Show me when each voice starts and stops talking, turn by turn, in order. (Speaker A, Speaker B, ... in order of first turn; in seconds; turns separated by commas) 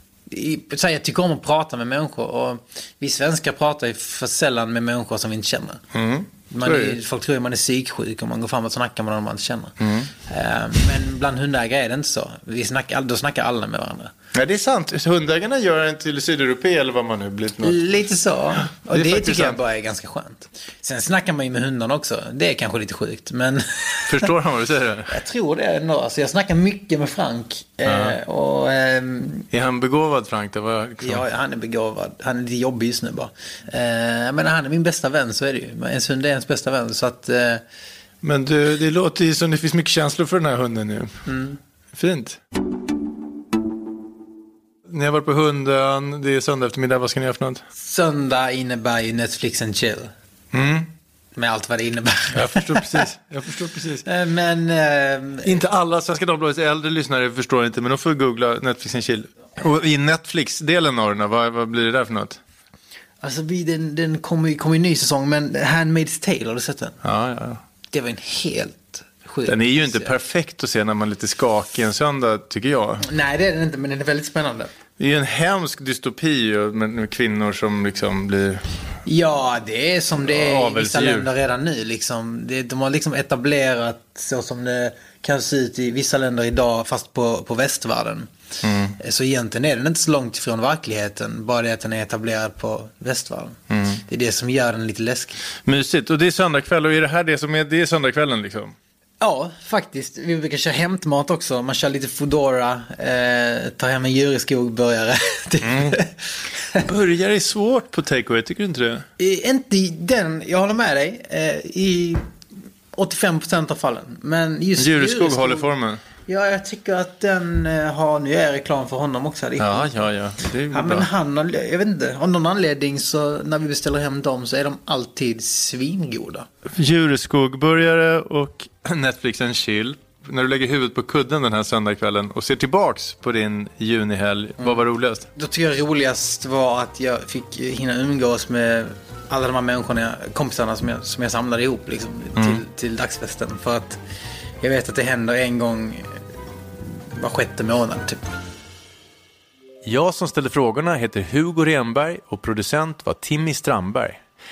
Speaker A: 0.3-5.8, Speaker B: 5.9-7.0, Speaker A: 6.5-14.1, Speaker B: 9.8-10.1, Speaker B: 14.3-17.9, Speaker A: 17.6-24.3, Speaker B: 18.9-19.6, Speaker B: 24.1-25.1, Speaker A: 25.1-29.5, Speaker B: 27.9-28.2, Speaker B: 29.5-31.2, Speaker A: 31.0-37.6, Speaker B: 38.2-41.2, Speaker A: 41.2-41.6, Speaker B: 41.9-42.4, Speaker B: 44.9-47.6, Speaker A: 47.7-50.1, Speaker B: 50.5-50.9, Speaker A: 51.4-53.0, Speaker B: 52.3-54.0, Speaker A: 54.0-55.6, Speaker B: 55.4-62.4, Speaker A: 63.2-67.0, Speaker B: 67.0-67.6, Speaker A: 67.9-70.1, Speaker B: 69.5-73.0, Speaker A: 73.0-74.7, Speaker B: 75.0-78.6, Speaker A: 79.0-88.3, Speaker B: 80.2-81.3, Speaker B: 88.6-89.0, Speaker A: 89.0-95.4, Speaker B: 93.7-94.0, Speaker B: 95.7-98.7, Speaker A: 99.2-106.8, Speaker B: 105.6-106.0, Speaker B: 106.8-109.0, Speaker A: 109.2-112.2, Speaker A: 112.9-115.7, Speaker B: 114.8-116.0, Speaker A: 116.3-120.0, Speaker B: 119.6-121.1, Speaker A: 120.7-126.5, Speaker B: 126.7-135.3, Speaker A: 135.3-144.0, Speaker B: 142.3-142.6, Speaker A: 144.6-146.1, Speaker A: 147.1-148.2, Speaker B: 149.8-154.2